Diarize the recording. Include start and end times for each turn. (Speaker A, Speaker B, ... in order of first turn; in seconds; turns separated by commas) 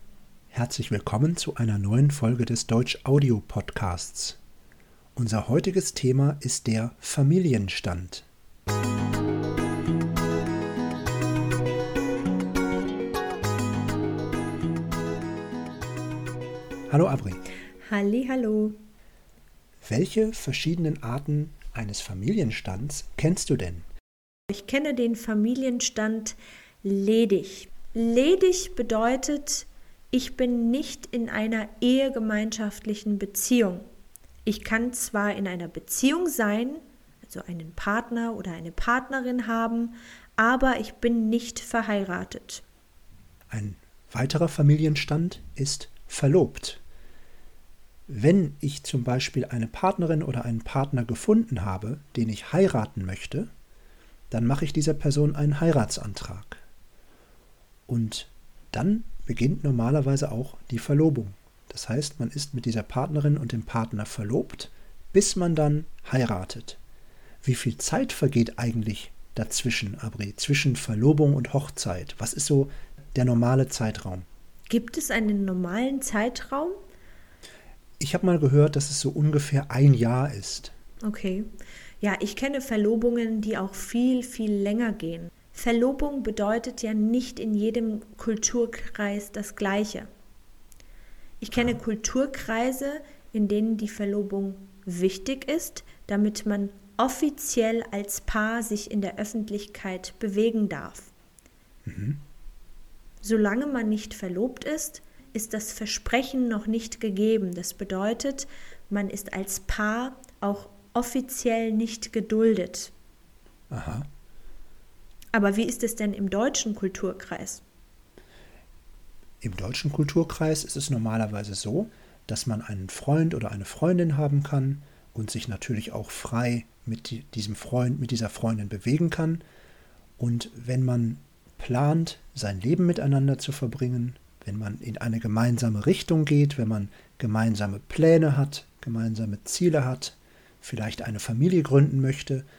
Speaker A: 0.5-4.4, Speaker A: 5.2-8.2, Speaker A: 16.9-17.4, Speaker B: 17.9-18.8, Speaker A: 19.8-23.9, Speaker B: 24.5-33.9, Speaker B: 34.5-42.6, Speaker A: 43.5-46.8, Speaker A: 48.1-53.5, Speaker A: 54.3-56.6, Speaker A: 57.9-66.8, Speaker A: 67.4-74.2, Speaker B: 74.7-76.8, Speaker A: 78.0-80.7, Speaker B: 81.0-81.5, Speaker B: 82.0-90.1, Speaker B: 91.4-101.1, Speaker A: 101.8-102.2, Speaker B: 103.2-112.9, Speaker A: 113.7-114.1, Speaker B: 115.3-117.6, Speaker A: 119.4-129.4, Speaker A: 130.2-142.4